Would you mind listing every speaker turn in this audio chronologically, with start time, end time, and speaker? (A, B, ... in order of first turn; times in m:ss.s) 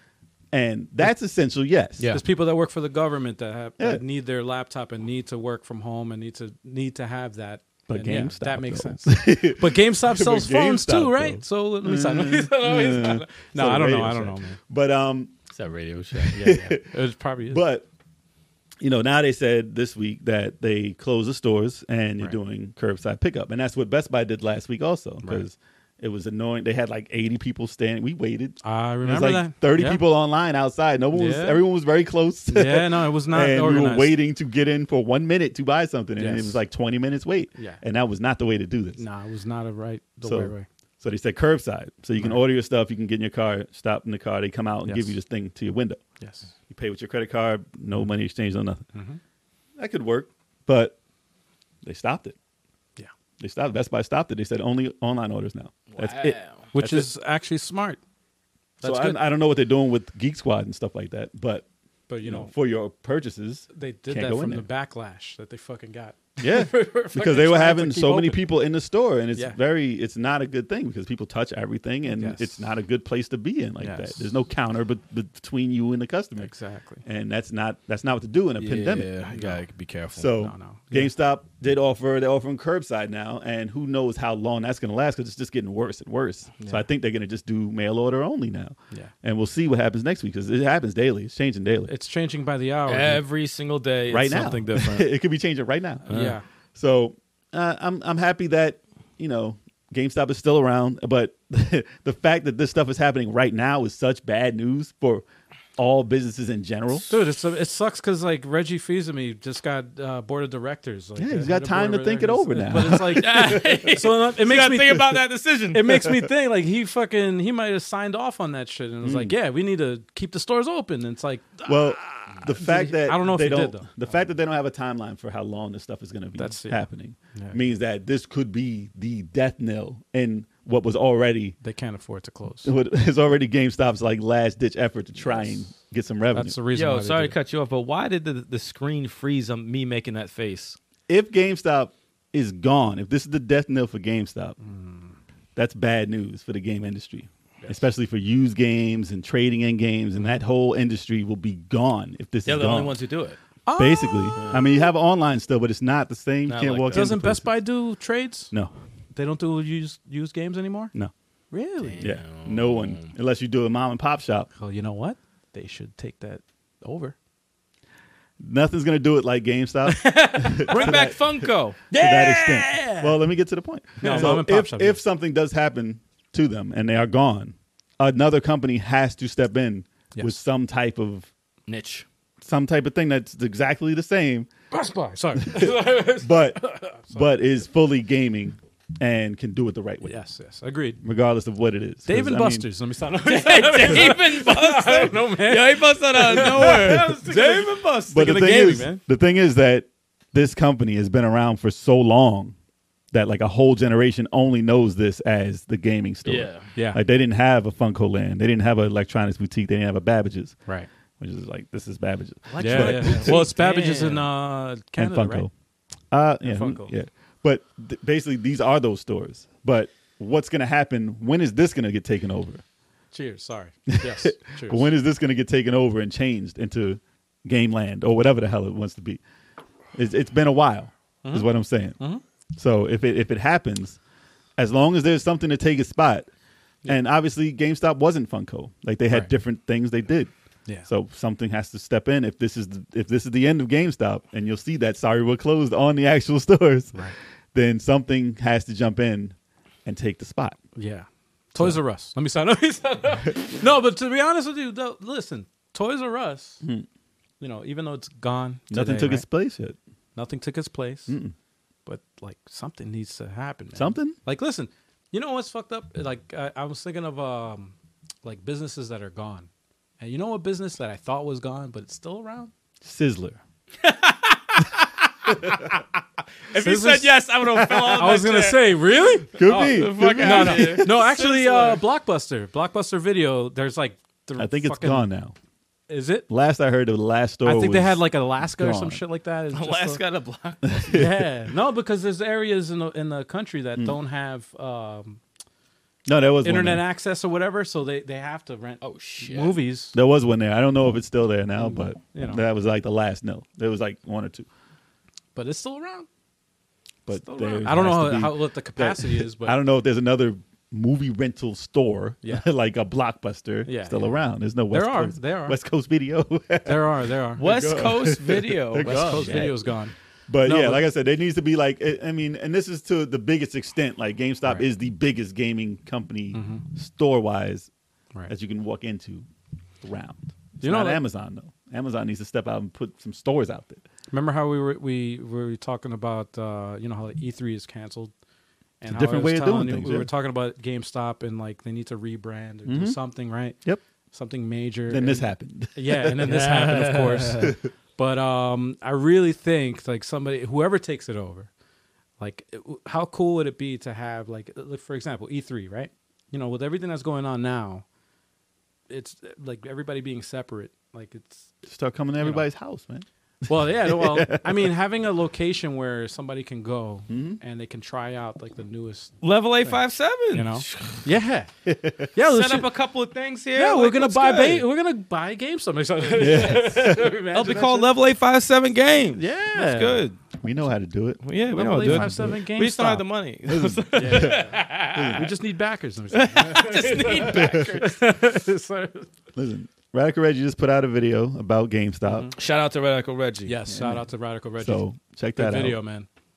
0:00.5-0:02.1 A
0:02.1-0:14.6 B
0:07.9-0:15.3 A
0:15.5-0:16.4 C
0:16.1-0:16.9 A
0:16.3-0:17.6 B
0:17.5-0:17.9 A
0:18.8-0:39.0 A
0:28.6-0:30.0 B
0:31.1-0:31.6 B
0:32.5-0:34.2 B
0:36.2-0:36.6 B
0:39.0-0:40.7 B
0:40.2-0:46.0 A
0:44.9-0:45.2 B
0:46.2-0:46.5 B
0:46.7-0:48.8 A
0:48.9-0:49.2 B
0:49.8-0:51.0 A
0:51.8-0:52.4 A
0:53.4-0:57.1 A
0:55.9-0:56.6 C
0:56.7-0:58.0 B
0:58.8-0:59.2 B
0:58.8-1:01.7 A
1:02.1-1:02.5 B
1:02.2-1:04.6 A
1:03.7-1:08.4 B
1:06.4-1:16.5 A
1:12.1-1:12.7 B
1:13.8-1:14.3 B
1:16.4-1:17.0 B
1:17.0-1:19.3 A
1:18.6-1:20.3 C
1:19.3-1:19.6 B
1:20.2-1:31.9 A
1:20.4-1:21.1 B
1:31.9-1:33.2 B
1:32.9-1:35.1 C
1:34.1-1:36.1 A
1:36.1-1:36.4 C
1:36.1-1:36.4 B
1:36.8-1:45.2 A
1:45.8-1:47.1 A
1:47.1-1:55.2 B
1:51.2-1:54.0 A
1:53.1-1:56.1 C
1:55.7-2:02.0 B
1:59.0-1:59.4 A
2:01.7-2:11.6 A
2:02.5-2:03.9 B
2:06.4-2:07.6 B
2:11.6-2:12.7 B
2:12.6-2:16.6 A
2:16.3-2:17.4 B
2:16.7-2:20.8 C
2:21.1-2:24.6 A
2:24.6-2:25.1 B
2:25.6-2:33.0 A
2:32.5-2:33.4 C
2:33.7-2:34.5 B
2:33.8-2:37.6 A
2:34.4-2:34.7 C
2:36.5-2:37.2 C
2:36.9-2:38.5 B
2:39.2-2:40.9 B
2:41.5-2:42.0 B
2:41.8-2:43.1 C
2:42.0-2:44.5 A
2:44.6-2:47.2 B
2:48.4-3:01.3 A
2:49.9-2:53.2 C
2:50.7-2:51.1 B
2:54.0-2:55.0 B
2:54.0-2:54.4 C
3:00.1-3:00.4 B
3:01.7-3:02.1 C
3:02.4-3:04.5 A
3:04.7-3:07.3 B
3:05.4-3:10.2 A
3:10.0-3:11.0 B
3:11.0-3:12.7 A
3:12.1-3:19.0 B
3:13.2-3:18.8 C
3:18.1-3:22.6 A
3:23.1-3:30.6 A
3:26.2-3:26.7 C
3:26.8-3:27.0 B
3:31.2-3:33.5 A
3:32.5-3:34.3 C
3:32.5-3:35.5 B
3:35.0-3:35.5 A
3:36.1-3:42.6 A
3:36.4-3:36.9 B
3:43.1-3:44.9 B
3:43.9-3:49.2 A
3:49.9-3:52.0 A
3:51.2-3:52.2 B
3:52.6-3:54.0 A
3:54.6-3:56.3 A
3:56.8-4:00.3 A
4:00.9-4:07.0 A
4:07.5-4:10.6 A
4:10.8-4:16.6 B
4:17.4-4:19.2 B
4:18.7-4:19.8 A
4:20.2-4:21.2 B
4:21.1-4:21.3 A
4:21.9-4:29.5 B
4:23.8-4:24.2 A
4:30.0-4:32.5 B
4:32.8-4:33.4 A
4:33.8-4:34.9 C
4:35.3-4:35.7 A
4:36.5-4:38.8 C
4:36.6-4:37.2 B
4:37.9-4:45.1 B
4:39.4-4:41.1 A
4:39.4-4:41.8 C
4:44.4-4:45.4 A
4:45.9-4:46.3 B
4:46.3-4:49.0 A
4:47.4-4:50.0 B
4:49.5-4:50.8 C
4:50.6-4:51.3 A
4:50.9-4:55.2 B
4:56.1-4:56.8 A
4:56.4-5:00.0 B
4:58.8-4:59.6 C
4:59.9-5:04.5 A
5:01.6-5:02.4 B
5:05.4-5:06.1 B
5:07.1-5:19.7 A
5:07.3-5:07.7 C
5:07.6-5:09.6 B
5:13.7-5:14.1 B
5:14.7-5:15.6 B
5:16.6-5:17.4 B
5:17.4-5:19.4 C
5:18.8-5:20.9 B
5:20.3-5:27.7 A
5:26.3-5:26.6 B
5:28.3-5:29.3 A
5:29.8-5:33.8 A
5:30.6-5:31.0 B
5:34.1-5:38.1 B
5:38.8-5:43.6 B
5:38.9-5:40.1 A
5:42.7-5:43.0 A
5:44.1-5:51.5 B
5:44.9-5:46.8 A
5:46.2-5:47.5 C
5:47.4-5:47.7 A
5:52.2-5:57.8 B
5:58.9-6:01.5 B
6:01.7-6:04.7 A
6:02.2-6:02.5 B
6:03.5-6:09.8 B
6:07.1-6:07.4 A
6:09.2-6:11.0 C
6:10.3-6:11.5 B
6:11.6-6:12.1 A
6:12.2-6:12.7 B
6:12.2-6:14.7 C
6:13.6-6:17.9 B
6:16.2-6:17.2 A
6:17.3-6:20.2 C
6:19.2-6:20.0 B
6:19.5-6:21.2 A
6:21.2-6:25.3 C
6:21.5-6:23.0 B
6:21.8-6:22.4 A
6:23.5-6:25.3 A
6:23.9-6:29.1 B
6:26.1-6:28.0 C
6:27.3-6:27.8 A
6:29.4-6:32.3 A
6:32.1-6:32.3 B
6:32.4-6:33.6 C
6:33.5-6:34.8 B
6:33.7-6:34.1 A
6:34.6-6:35.8 A
6:35.4-6:36.1 B